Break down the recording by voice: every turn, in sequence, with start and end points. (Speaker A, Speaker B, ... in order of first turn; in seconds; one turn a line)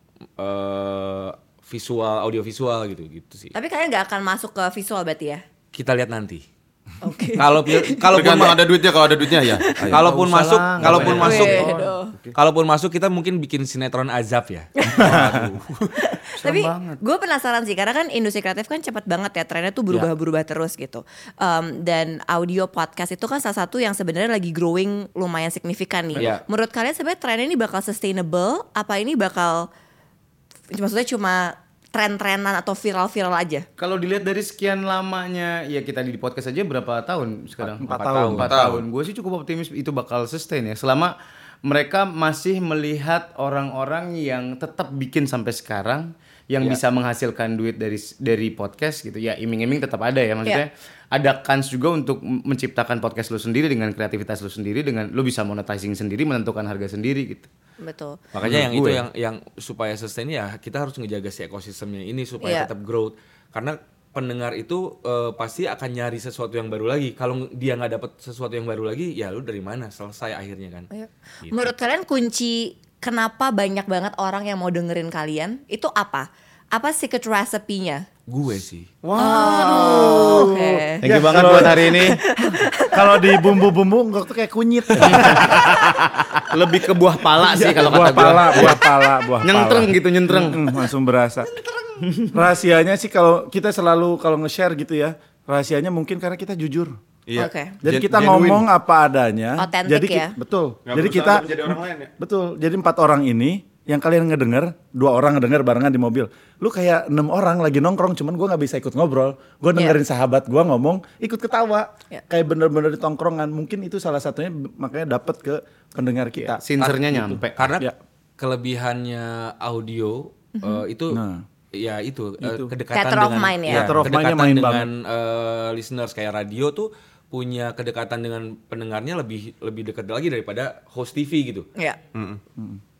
Speaker A: 0.4-3.5
Speaker B: 3.5-5.4
Speaker A: 5.7-6.4
Speaker B: 7.0-8.2
Speaker A: 7.3-8.7
Speaker C: 8.1-10.1
Speaker B: 9.4-9.8
Speaker D: 9.8-11.9
Speaker A: 9.9-11.7
Speaker C: 10.8-11.4
Speaker B: 11.2-12.1
Speaker A: 12.3-15.6
Speaker B: 14.8-15.1
Speaker E: 15.0-15.5
Speaker C: 15.2-15.9
Speaker B: 15.9-29.7
Speaker D: 16.4-17.0
Speaker A: 26.1-26.4
Speaker B: 30.7-33.6
Speaker D: 33.8-41.1
Speaker E: 37.6-38.6
Speaker A: 37.8-38.5
Speaker C: 38.4-38.8
Speaker D: 41.6-57.5
Speaker B: 57.8-58.2
Speaker A: 58.3-70.9
Speaker D: 58.4-59.0
Speaker B: 62.4-62.7
Speaker B: 70.9-78.0
Speaker A: 71.4-71.7
Speaker A: 78.3-78.9
Speaker C: 79.0-80.6
Speaker B: 79.1-81.0
Speaker E: 80.1-82.1
Speaker D: 81.0-82.2
Speaker B: 81.8-83.1
Speaker E: 82.8-85.9
Speaker D: 85.0-85.7
Speaker D: 86.4-88.8
Speaker E: 87.4-91.5
Speaker D: 89.4-90.6
Speaker D: 92.0-92.3
Speaker E: 92.3-97.0
Speaker C: 97.3-98.6
Speaker B: 97.3-97.8
Speaker E: 97.8-117.9
Speaker B: 99.6-100.3
Speaker C: 100.9-102.1
Speaker D: 116.4-117.7
Speaker A: 117.5-121.2
Speaker B: 120.5-120.8
Speaker E: 121.1-121.4
Speaker A: 121.7-131.7
Speaker E: 122.4-122.7
Speaker B: 122.9-124.0
Speaker E: 123.7-124.9
Speaker C: 132.1-132.4